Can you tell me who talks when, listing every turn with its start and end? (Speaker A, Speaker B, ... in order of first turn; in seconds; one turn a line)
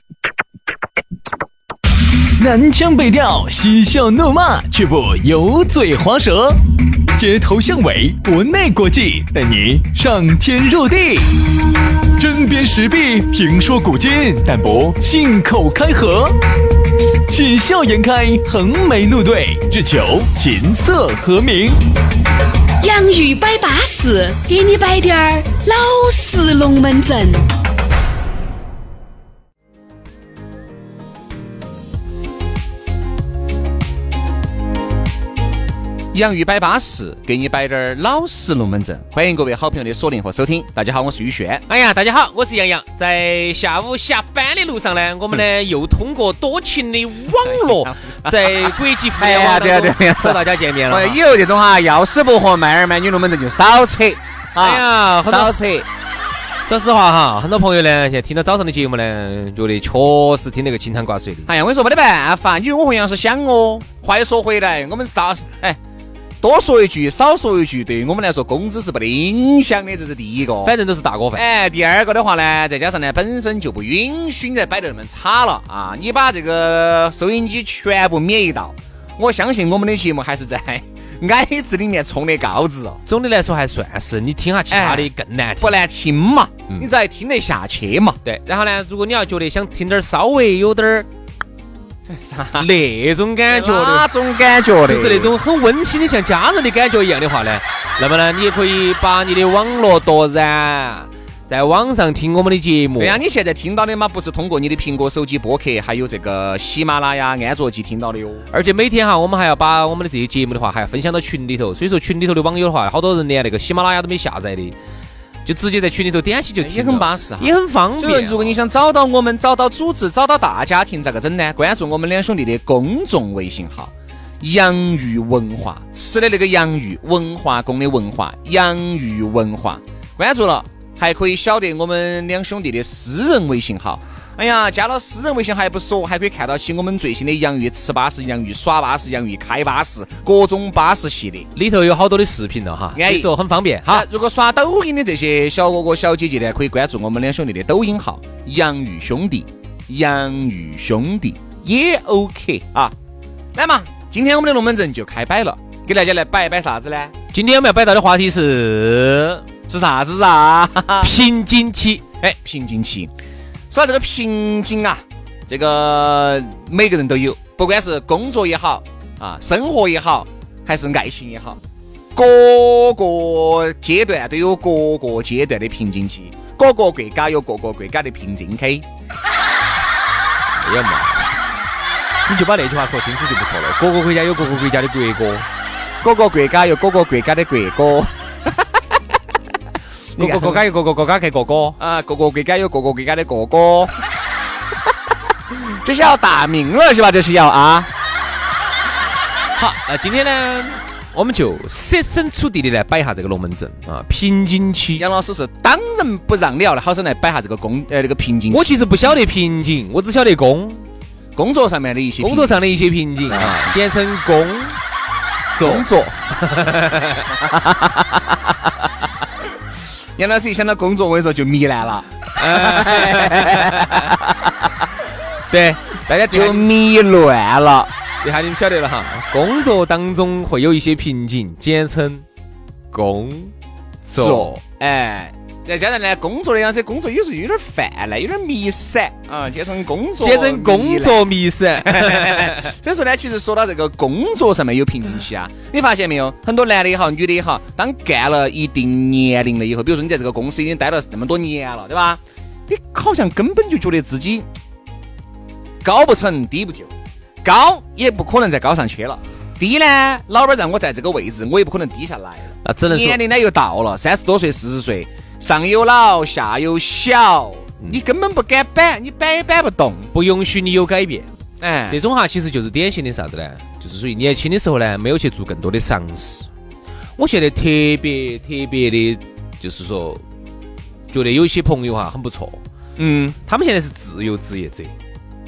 Speaker A: 2.4-6.6
Speaker A: 7.1-11.4
Speaker A: 12.2-16.4
Speaker A: 17.3-21.8
Speaker B: 22.8-27.5
Speaker C: 36.1-41.6
Speaker D: 41.7-51.2
Speaker C: 47.3-55.9
Speaker D: 54.6-55.5
Speaker D: 56.6-61.5
Speaker C: 61.5-65.8
Speaker C: 66.4-70.8
Speaker D: 70.6-71.4
Speaker C: 71.3-83.0
Speaker D: 83.0-85.7
Speaker C: 84.7-88.2
Speaker D: 88.2-91.1
Speaker C: 92.1-92.7
Speaker D: 92.6-94.0
Speaker C: 93.5-95.3
Speaker D: 94.9-103.2
Speaker C: 103.0-108.5
Speaker D: 108.5-114.8
Speaker D: 115.4-118.6
Speaker C: 116.6-141.5
Speaker D: 141.5-144.0
Speaker C: 142.9-143.3
Speaker C: 143.8-152.9
Speaker C: 153.5-157.1
Speaker D: 157.3-159.4
Speaker C: 159.7-161.1
Speaker D: 161.0-162.0
Speaker C: 162.2-163.1
Speaker C: 163.7-171.6
Speaker C: 172.1-178.8
Speaker D: 180.6-181.3
Speaker D: 182.3-185.4
Speaker C: 186.0-189.0
Speaker C: 190.2-190.6
Speaker D: 190.2-191.8
Speaker C: 191.8-193.9
Speaker C: 195.5-197.9
Speaker D: 199.6-205.0
Speaker C: 204.9-209.2
Speaker D: 208.5-210.8
Speaker C: 211.3-213.7
Speaker D: 212.2-214.8
Speaker D: 215.5-217.4
Speaker C: 215.6-216.2
Speaker C: 217.3-218.9
Speaker C: 220.2-224.9
Speaker D: 222.3-224.1
Speaker D: 225.5-226.7
Speaker C: 226.3-227.9
Speaker D: 228.2-232.2
Speaker D: 232.9-233.5
Speaker D: 234.0-234.6
Speaker C: 234.1-254.5
Speaker D: 240.2-242.7
Speaker C: 255.8-256.9
Speaker C: 257.4-270.1
Speaker D: 262.6-263.2
Speaker D: 270.1-271.3
Speaker C: 271.6-272.0
Speaker D: 271.9-276.5
Speaker D: 277.2-280.2
Speaker D: 281.1-282.6
Speaker C: 283.0-283.4
Speaker D: 283.5-284.9